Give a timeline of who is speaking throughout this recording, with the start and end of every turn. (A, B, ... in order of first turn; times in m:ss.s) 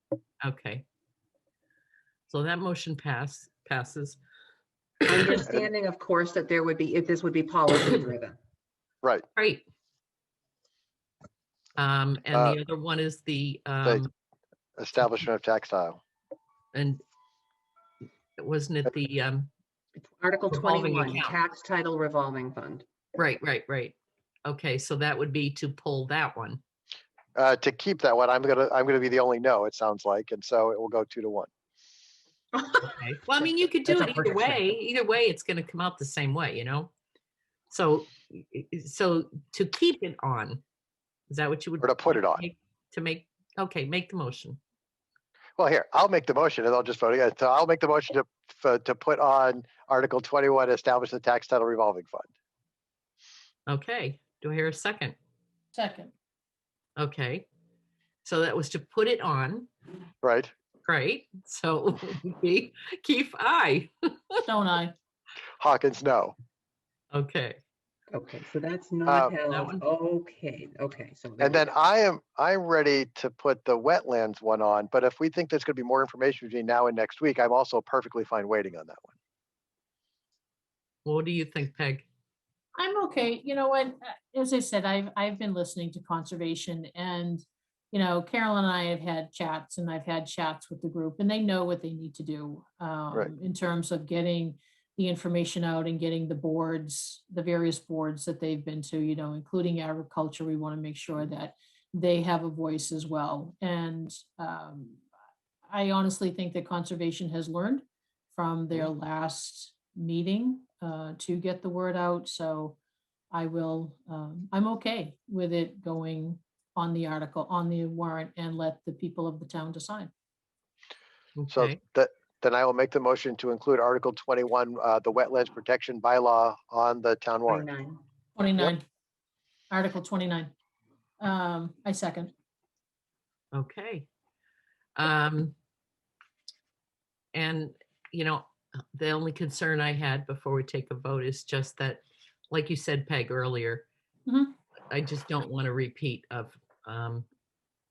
0:00.4-0:00.8 A
0:02.3-0:04.2 A
0:05.1-0:08.4 B
0:09.4-0:09.6 A
0:11.8-0:14.1 A
0:12.3-0:12.6 C
0:14.8-0:16.0 C
0:16.7-0:17.0 A
0:18.4-0:19.5 A
0:20.0-0:22.8 B
0:20.5-0:21.4 A
0:23.1-0:26.6 A
0:27.4-0:31.5 C
0:32.6-0:32.9 B
0:32.8-0:36.9 A
0:33.8-0:34.7 B
0:37.7-0:40.6 A
0:41.3-0:44.6 A
0:41.8-0:42.4 C
0:45.6-0:52.3 C
0:53.7-0:55.2 A
0:55.7-0:56.1 D
0:57.0-0:57.5 A
0:58.2-0:59.7 A
1:00.2-1:00.5 C
1:00.8-1:04.3 A
1:04.4-1:04.9 D
1:05.6-1:06.3 C
1:07.1-1:07.6 A
1:08.1-1:11.7 B
1:09.1-1:09.3 C
1:09.5-1:09.8 A
1:11.4-1:19.1 C
1:21.0-1:22.0 A
1:22.8-1:45.0 D
1:45.6-1:52.8 D
1:53.3-2:00.1 D
2:01.4-2:01.8 A
2:01.5-2:07.7 C
2:07.5-2:08.0 B
2:08.4-2:08.8 D
2:09.7-2:10.5 D
2:11.2-2:12.3 D
2:13.5-2:14.1 A
2:15.0-2:15.5 A
2:17.3-2:23.9 A
2:24.3-2:24.5 D
2:24.9-2:27.2 A